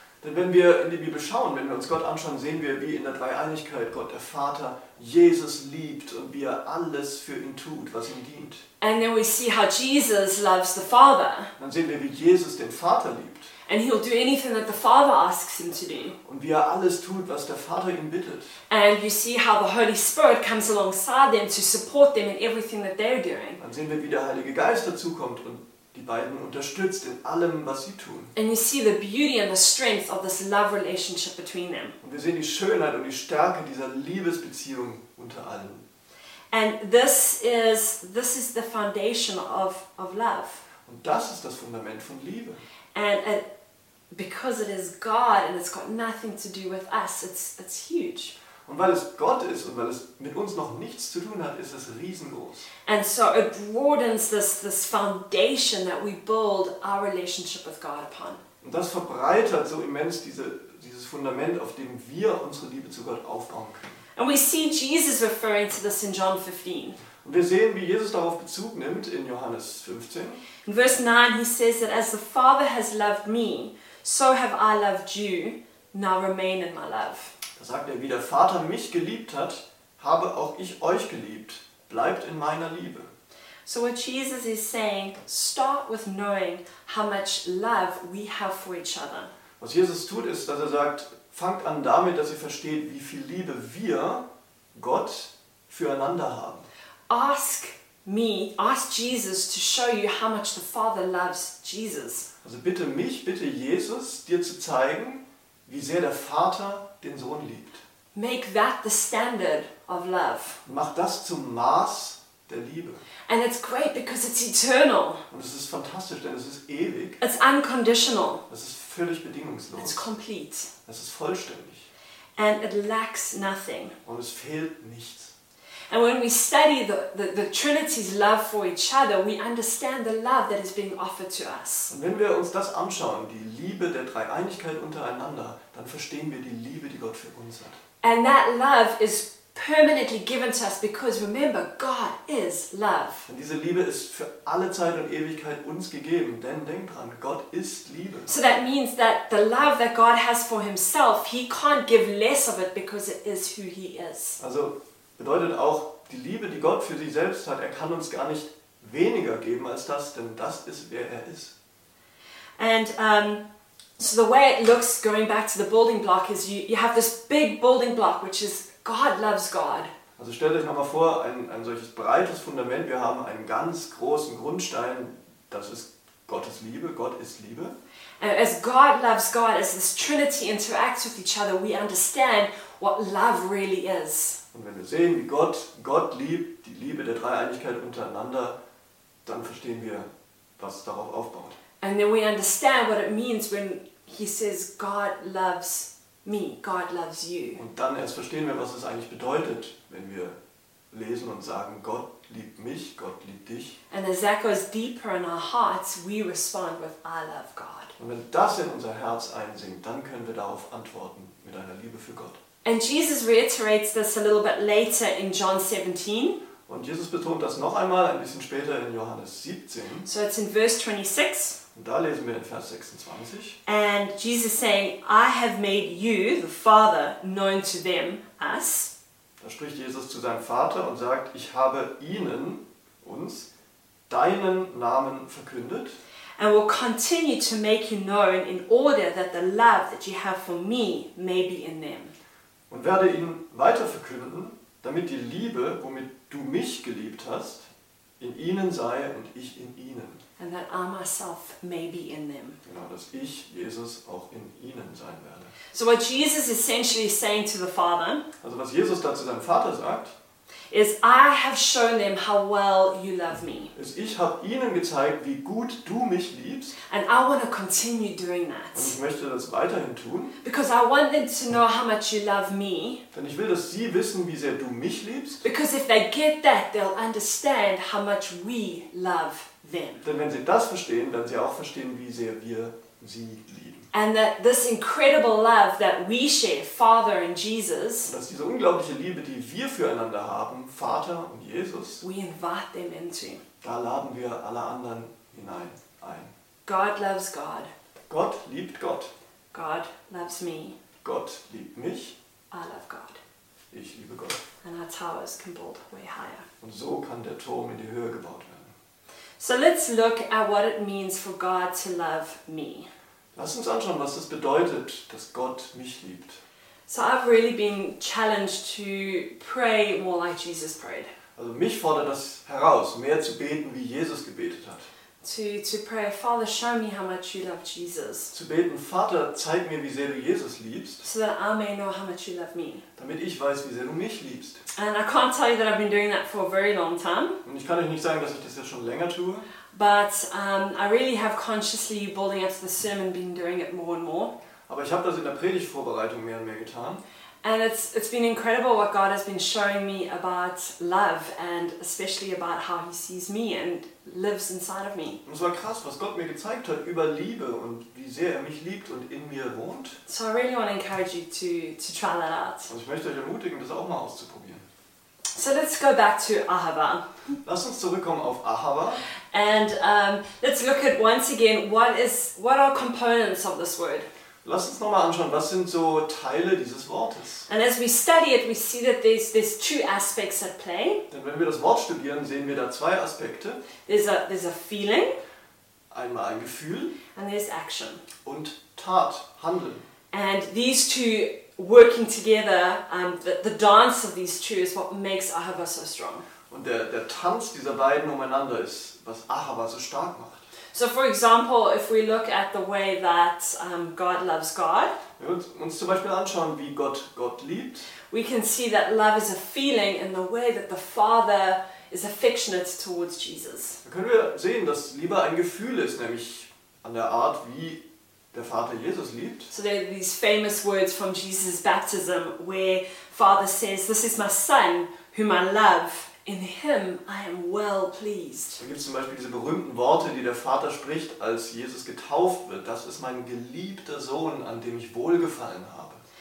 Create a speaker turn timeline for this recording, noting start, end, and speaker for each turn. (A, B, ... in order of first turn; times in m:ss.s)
0:00.2-0:08.6 A
0:08.8-0:11.5 B
0:11.6-0:13.5 A
0:13.7-0:16.2 B
0:16.2-0:18.5 A
0:18.7-0:23.6 B
0:23.6-0:28.3 A
0:28.3-0:32.0 B
0:32.0-0:35.8 A
0:36.5-0:40.6 B
0:40.8-0:42.6 A
0:42.9-0:43.4 B
0:44.1-0:48.3 B
0:48.6-0:52.7 A
0:52.8-0:58.4 B
0:58.6-1:04.0 A
1:04.2-1:07.0 B
1:07.2-1:10.4 A
1:10.6-1:17.3 B
1:17.6-1:23.1 A
1:23.6-1:29.3 B
1:29.6-1:34.2 A
1:34.7-1:36.7 A
1:37.1-1:42.3 B
1:42.4-1:47.8 A
1:48.1-1:50.6 B
1:50.6-1:53.0 A
1:53.3-1:55.2 B
1:55.3-1:57.2 A
1:57.2-1:58.4 B
1:58.5-2:00.1 A
1:59.8-2:00.7 B
2:00.8-2:01.9 A
2:02.4-2:03.9 B
2:04.0-2:05.3 A
2:05.9-2:11.9 B
2:11.9-2:17.8 A
2:18.0-2:23.3 B
2:23.3-2:28.3 A
2:28.3-2:34.4 B
2:34.4-2:41.5 A
2:42.6-2:43.4 B
2:44.0-2:49.9 B
2:50.2-2:57.7 A
2:58.2-3:04.4 B
3:04.5-3:08.6 A
3:09.2-3:10.1 A
3:10.6-3:11.6 A
3:11.8-3:17.6 B
3:17.6-3:20.4 A
3:20.9-3:23.8 A
3:23.9-3:27.9 B
3:28.0-3:32.4 A
3:32.6-3:36.4 B
3:36.7-3:40.1 A
3:40.0-3:41.6 B
3:41.7-3:43.6 A
3:43.6-3:48.9 B
3:49.4-3:53.5 A
3:54.1-3:56.0 A
3:56.4-4:02.1 B
4:02.7-4:10.2 A
4:10.4-4:12.6 B
4:12.6-4:15.5 A
4:15.7-4:18.3 B
4:18.4-4:20.1 A
4:20.7-4:23.7 B
4:23.7-4:26.8 A
4:26.9-4:28.9 B
4:28.7-4:30.4 A
4:30.4-4:33.0 B
4:33.1-4:35.4 A
4:35.4-4:40.0 B
4:40.0-4:43.9 A
4:43.9-4:48.1 B
4:48.0-4:52.0 A
4:52.0-4:53.4 B
4:53.6-4:56.3 A
4:56.6-4:57.7 B
4:58.1-4:59.1 A
4:59.5-5:00.8 B
5:01.0-5:02.2 A
5:02.5-5:03.2 B
5:03.7-5:04.4 A
5:04.6-5:06.4 B
5:06.6-5:08.7 A
5:09.4-5:12.9 B
5:13.3-5:16.4 A
5:16.9-5:21.1 B
5:21.4-5:24.9 A
5:25.2-5:28.3 B
5:28.3-5:31.0 A
5:31.0-5:32.8 B
5:33.0-5:34.6 A
5:34.7-5:37.4 B
5:37.4-5:39.5 A
5:39.7-5:44.3 B
5:44.7-5:47.0 A
5:47.4-5:55.2 B
5:55.2-6:00.0 A
6:00.1-6:02.7 B
6:02.7-6:04.6 A
6:05.3-6:07.0 B
6:07.4-6:09.0 A
6:09.3-6:14.1 B
6:14.4-6:17.4 A
6:17.5-6:21.0 B
6:21.1-6:23.6 A
6:23.8-6:25.2 B
6:25.9-6:27.0 A
6:27.1-6:28.0 B
6:28.2-6:29.8 A
6:30.1-6:36.2 B
6:36.5-6:40.5 A
6:40.7-6:45.0 B
6:45.2-6:47.9 A
6:48.1-6:53.8 B
6:53.8-6:57.8 A
6:58.3-6:59.5 A
6:59.5-7:08.6 B
7:08.6-7:16.0 A